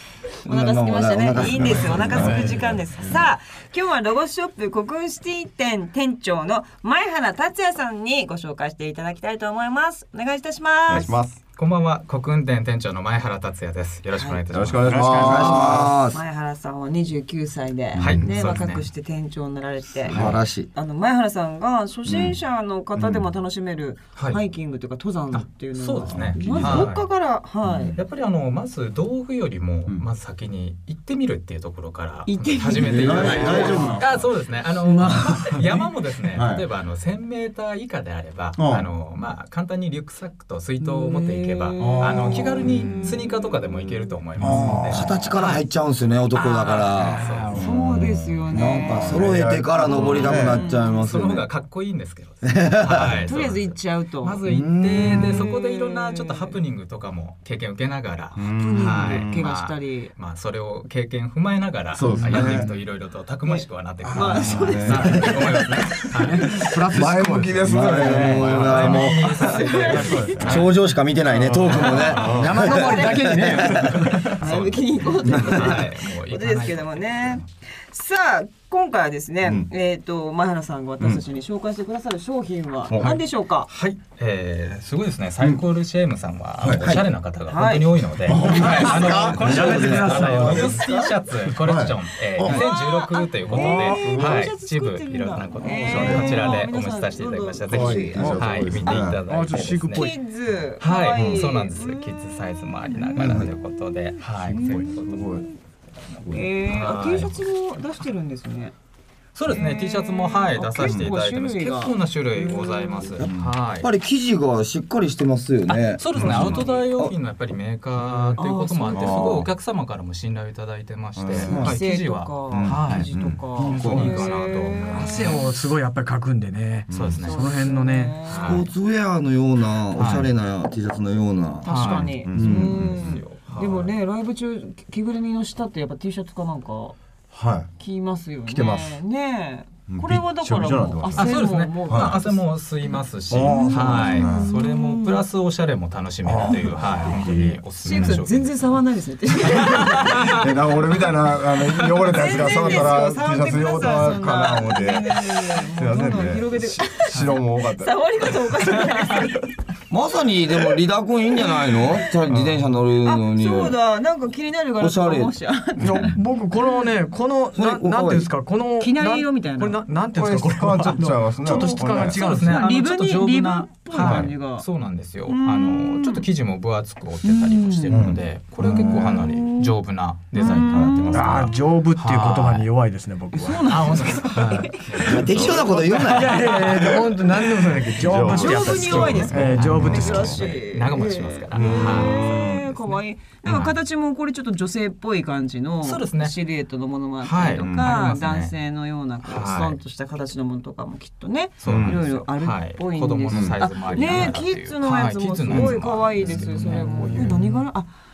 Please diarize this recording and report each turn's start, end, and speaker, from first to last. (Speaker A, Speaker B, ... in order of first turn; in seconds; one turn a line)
Speaker A: 0.4-11.2
Speaker B: 0.5-2.6
Speaker C: 1.3-2.6
Speaker D: 2.1-3.3
Speaker C: 10.9-11.4
Speaker E: 11.6-15.1
Speaker A: 14.1-14.4
Speaker C: 14.5-15.9
Speaker D: 14.8-15.9
Speaker B: 15.2-16.2
Speaker A: 16.1-28.0
Speaker E: 18.0-18.9
Speaker C: 18.0-18.3
Speaker C: 20.1-20.4
Speaker B: 20.1-20.7
Speaker C: 22.1-22.4
Speaker C: 22.9-23.3
Speaker E: 25.3-27.1
Speaker C: 26.0-26.9
Speaker C: 27.6-28.0
Speaker E: 27.9-45.6
Speaker A: 32.3-34.1
Speaker D: 32.8-34.1
Speaker C: 32.8-34.3
Speaker D: 34.8-35.6
Speaker C: 36.3-36.6
Speaker C: 38.6-38.9
Speaker A: 40.8-43.5
Speaker D: 41.8-43.1
Speaker D: 44.4-45.2
Speaker B: 44.4-47.3
Speaker C: 44.7-45.0
Speaker E: 46.3-47.6
Speaker D: 47.1-48.0
Speaker C: 47.5-50.6
Speaker A: 47.5-51.2
Speaker B: 48.5-51.5
Speaker E: 50.0-66.7
Speaker B: 52.5-53.2
Speaker A: 53.3-54.4
Speaker B: 54.5-55.4
Speaker A: 55.0-56.6
Speaker C: 58.4-59.5
Speaker A: 58.6-60.1
Speaker C: 61.9-62.7
Speaker D: 62.1-62.6
Speaker A: 63.5-66.0
Speaker C: 64.0-65.8
Speaker D: 64.4-64.7
Speaker D: 66.1-70.5
Speaker C: 66.6-70.6
Speaker B: 66.9-69.4
Speaker E: 68.3-70.7
Speaker A: 69.3-70.4
Speaker B: 70.4-74.1
Speaker D: 71.3-74.4
Speaker E: 71.7-72.5
Speaker C: 71.7-72.6
Speaker A: 72.6-73.8
Speaker C: 74.0-74.4
Speaker E: 74.2-77.4
Speaker A: 74.3-83.7
Speaker B: 75.3-75.7
Speaker C: 79.4-79.7
Speaker C: 82.9-83.2
Speaker E: 83.7-100.1
Speaker C: 86.6-87.0
Speaker A: 87.5-88.0
Speaker C: 88.3-92.6
Speaker B: 88.4-90.4
Speaker D: 88.6-90.8
Speaker A: 92.4-99.0
Speaker D: 93.5-93.8
Speaker C: 93.5-94.5
Speaker C: 95.7-96.5
Speaker C: 97.7-99.2
Speaker D: 97.9-100.2
Speaker A: 99.9-103.4
Speaker E: 100.8-105.5
Speaker C: 101.1-101.5
Speaker C: 103.2-103.5
Speaker B: 103.2-103.5
Speaker C: 104.5-105.5
Speaker A: 104.5-105.6
Speaker C: 106.1-106.5
Speaker A: 106.3-108.7
Speaker E: 106.6-107.5
Speaker E: 109.3-113.9
Speaker A: 109.5-113.2
Speaker C: 110.8-111.1
Speaker C: 113.2-113.5
Speaker B: 113.8-117.1
Speaker E: 115.7-125.4
Speaker C: 116.2-116.6
Speaker A: 116.3-116.9
Speaker C: 118.1-118.4
Speaker A: 118.4-119.3
Speaker C: 118.9-119.5
Speaker C: 121.2-121.8
Speaker A: 121.3-125.4
Speaker B: 121.5-121.8
Speaker C: 122.5-124.2
Speaker B: 122.9-124.1
Speaker D: 124.9-128.2
Speaker C: 126.9-127.3
Speaker E: 126.9-127.6
Speaker A: 127.2-128.7
Speaker E: 128.3-128.7
Speaker B: 128.4-132.7
Speaker E: 129.9-130.3
Speaker A: 131.6-137.0
Speaker E: 131.7-133.9
Speaker C: 132.2-133.2
Speaker C: 137.3-137.7
Speaker A: 137.8-145.3
Speaker C: 138.5-139.0
Speaker C: 139.9-142.2
Speaker E: 141.2-148.8
Speaker C: 143.3-144.6
Speaker C: 146.2-148.2
Speaker A: 147.8-150.4
Speaker E: 149.5-150.3
Speaker C: 149.6-158.4
Speaker A: 151.9-159.5
Speaker E: 157.1-157.4
Speaker B: 159.9-163.8
Speaker A: 161.3-162.1
Speaker C: 162.3-162.7
Speaker A: 163.0-166.9
Speaker B: 164.8-165.3
Speaker D: 165.8-172.7
Speaker B: 167.6-168.3
Speaker A: 168.8-169.8
Speaker C: 170.1-172.2
Speaker E: 171.5-182.7
Speaker A: 171.6-174.7
Speaker C: 173.9-174.3
Speaker A: 175.3-176.3
Speaker A: 177.2-178.0
Speaker C: 177.9-179.3
Speaker A: 178.6-179.8
Speaker A: 180.3-181.2
Speaker D: 180.4-184.2
Speaker C: 180.6-181.5
Speaker A: 183.3-187.0
Speaker E: 183.6-186.9
Speaker B: 185.1-186.5
Speaker D: 186.0-190.4
Speaker C: 187.9-190.4
Speaker A: 188.2-207.9
Speaker E: 189.5-192.8
Speaker C: 191.5-192.8
Speaker E: 193.4-193.7
Speaker E: 195.8-196.4
Speaker E: 197.2-198.5
Speaker C: 197.6-198.0
Speaker E: 199.2-199.8
Speaker E: 201.6-207.6
Speaker C: 201.7-202.0
Speaker C: 203.3-204.4
Speaker B: 205.5-205.8
Speaker D: 206.8-207.4